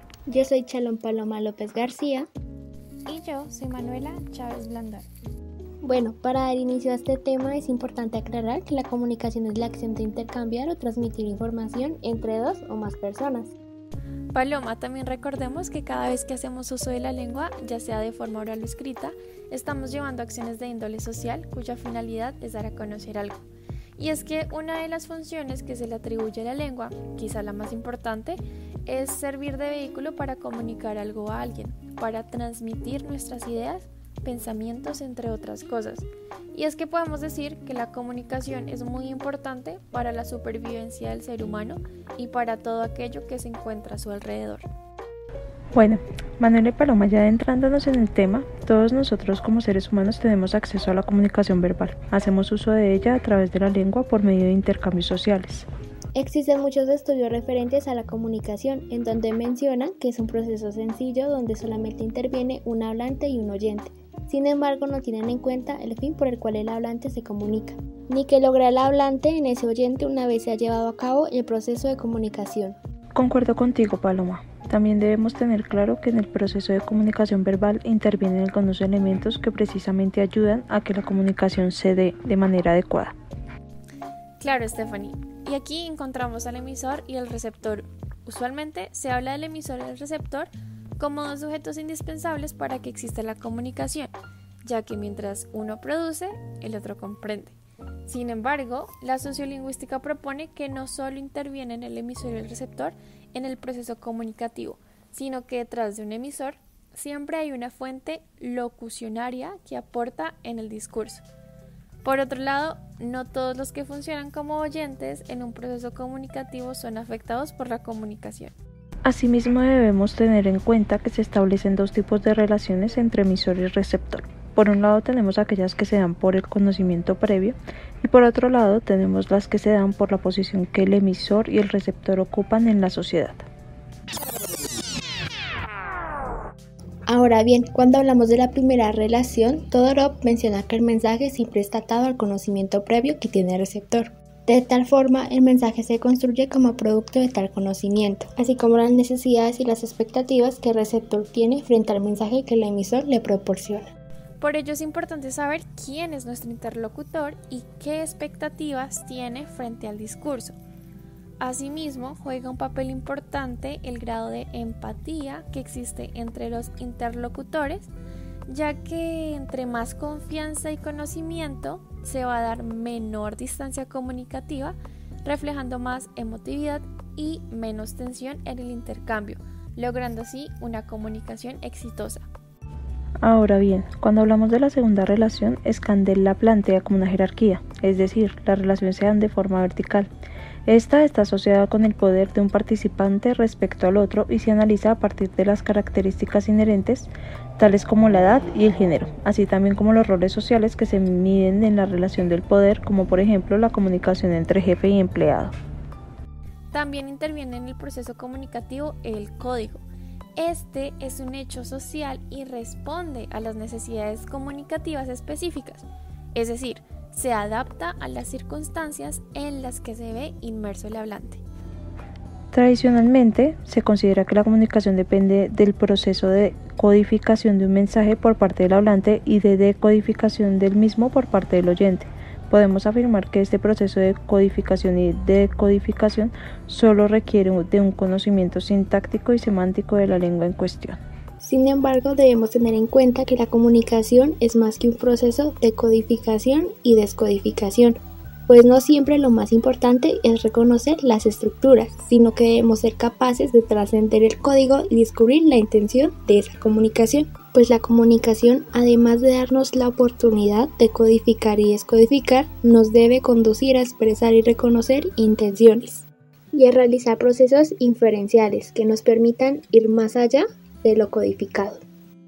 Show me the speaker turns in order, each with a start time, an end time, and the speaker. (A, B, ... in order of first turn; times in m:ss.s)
0:00.3-0:02.3 A
0:03.1-0:05.1 B
0:05.8-0:13.6 A
0:14.3-0:23.4 B
0:24.0-0:44.7 B
0:45.7-0:55.7 C
0:56.1-1:12.8 A
1:13.1-1:23.2 C
1:24.4-1:34.1 B
1:34.6-1:51.2 B
1:52.0-1:58.5 B
1:59.0-2:13.5 C
2:17.1-2:33.9 A
2:34.4-2:40.6 B
2:41.4-2:47.9 B
2:48.5-3:02.3 B
3:03.2-3:10.1 C
3:10.7-3:25.5 C
3:26.7-3:29.8 B
3:30.4-3:41.4 B
3:42.5-4:01.0 C
4:01.4-4:08.0 A
4:08.5-4:31.8 A